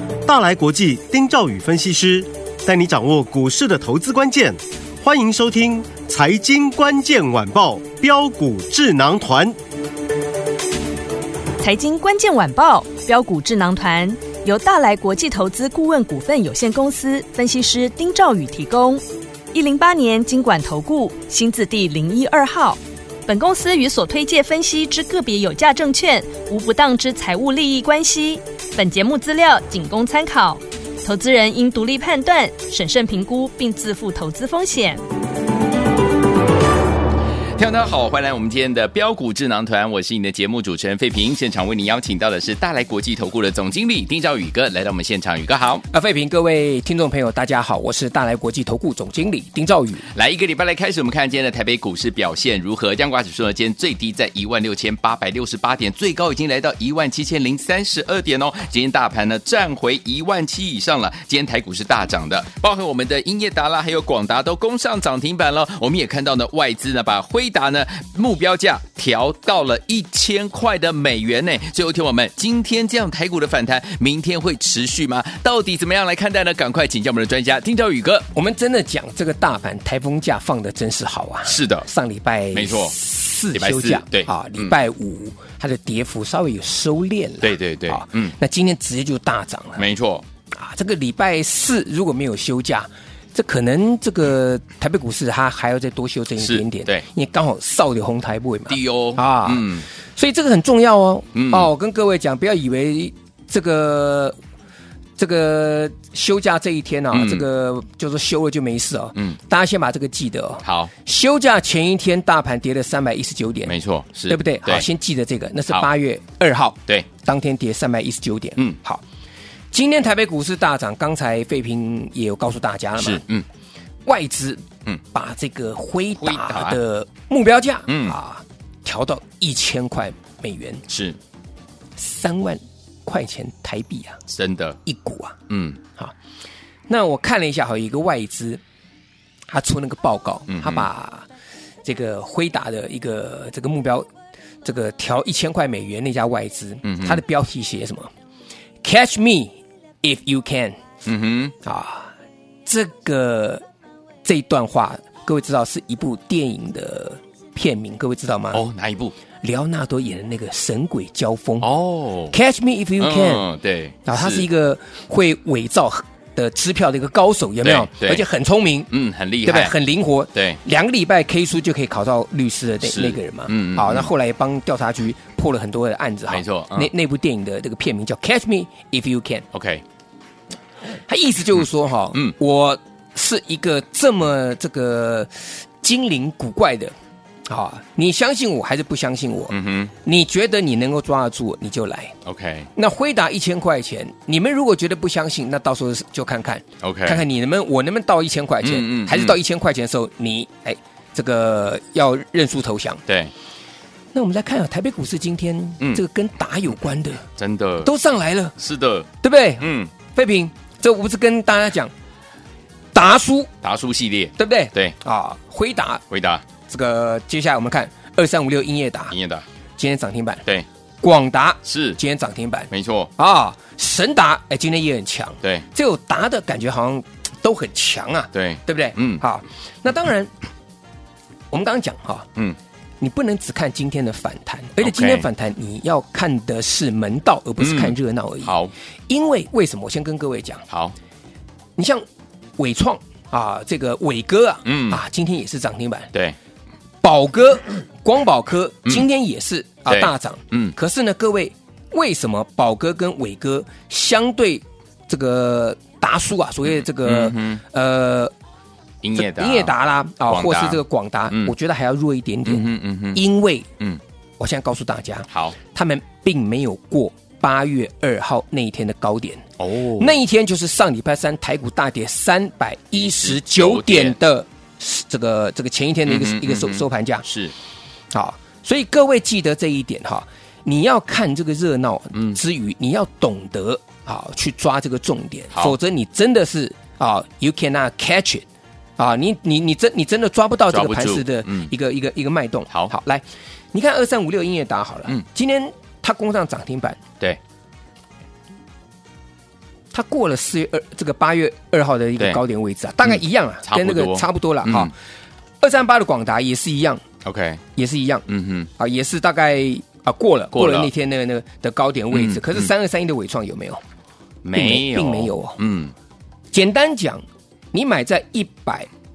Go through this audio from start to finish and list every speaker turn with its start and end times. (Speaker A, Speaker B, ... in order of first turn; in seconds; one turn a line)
Speaker A: 0.2-9.6
Speaker B: 11.6-35.0
Speaker C: 37.6-45.9
Speaker D: 45.9-50.1
Speaker C: 50.0-78.3
Speaker D: 78.3-89.8
Speaker C: 81.5-81.9
Speaker C: 82.5-83.0
Speaker C: 83.5-84.7
Speaker C: 87.4-88.3
Speaker C: 89.8-90.2
Speaker D: 90.5-104.4
Speaker C: 96.4-97.1
Speaker C: 98.7-99.9
Speaker C: 101.3-101.7
Speaker D: 105.2-113.8
Speaker C: 107.1-107.5
Speaker C: 110.6-110.9
Speaker C: 113.7-114.9
Speaker D: 114.3-119.0
Speaker D: 119.7-123.2
Speaker C: 123.0-123.5
Speaker D: 124.1-130.8
Speaker C: 126.2-126.8
Speaker C: 127.9-128.2
Speaker C: 130.9-131.2
Speaker D: 132.0-134.2
Speaker C: 134.3-134.8
Speaker D: 134.8-135.4
Speaker C: 135.5-135.8
Speaker D: 136.9-138.6
Speaker D: 139.5-141.3
Speaker C: 140.5-140.9
Speaker D: 141.8-144.1
Speaker D: 144.6-148.1
Speaker C: 146.8-147.2
Speaker D: 148.8-150.8
Speaker C: 151.1-151.5
Speaker D: 151.6-152.1
Speaker D: 152.7-153.6
Speaker D: 154.2-158.6
Speaker C: 158.5-159.2
Speaker D: 159.4-161.7
Speaker C: 161.6-162.3
Speaker D: 162.3-163.5
Speaker C: 163.0-164.5
Speaker D: 164.1-168.9
Speaker C: 167.6-168.2
Speaker C: 168.9-169.8
Speaker D: 169.4-179.5
Speaker C: 170.3-170.6
Speaker C: 172.8-174.1
Speaker C: 176.3-176.9
Speaker C: 179.5-179.8
Speaker D: 181.1-186.9
Speaker D: 187.5-192.2
Speaker C: 189.5-189.9
Speaker C: 192.2-192.7
Speaker D: 192.8-203.0
Speaker C: 196.8-197.2
Speaker C: 198.6-199.4
Speaker C: 203.1-203.3
Speaker D: 204.1-207.3
Speaker C: 207.4-207.9
Speaker D: 207.8-208.6
Speaker C: 208.6-209.9
Speaker D: 209.2-211.9
Speaker D: 212.9-213.5
Speaker C: 213.6-215.0
Speaker D: 214.4-216.0
Speaker C: 216.1-216.4
Speaker D: 216.7-219.2
Speaker C: 219.1-219.5
Speaker D: 219.8-220.4
Speaker D: 221.0-230.3
Speaker C: 221.7-222.0
Speaker C: 222.7-223.1
Speaker C: 225.4-225.7
Speaker C: 228.3-229.2
Speaker D: 231.5-232.3
Speaker D: 233.0-238.5
Speaker C: 234.8-235.3
Speaker C: 237.6-238.7
Speaker D: 239.1-240.7
Speaker C: 240.7-240.9
Speaker D: 241.8-242.1
Speaker D: 242.6-246.1
Speaker C: 244.7-245.0
Speaker D: 247.0-258.3
Speaker C: 249.9-250.8
Speaker C: 256.7-257.6
Speaker C: 259.0-259.7
Speaker D: 259.1-263.7
Speaker C: 260.3-261.5
Speaker C: 262.4-263.2
Speaker D: 264.4-277.3
Speaker C: 265.3-265.6
Speaker C: 269.6-270.2
Speaker C: 272.9-274.2
Speaker C: 276.1-277.6
Speaker D: 278.1-288.4
Speaker C: 282.1-282.4
Speaker D: 289.0-297.0
Speaker C: 290.7-291.7
Speaker D: 299.9-304.9
Speaker C: 303.1-304.9
Speaker D: 305.6-307.0
Speaker C: 307.2-307.6
Speaker D: 307.8-313.8
Speaker C: 308.3-308.7
Speaker C: 310.5-310.9
Speaker C: 312.1-312.7
Speaker C: 314.4-315.9
Speaker D: 314.6-315.6
Speaker D: 316.5-318.9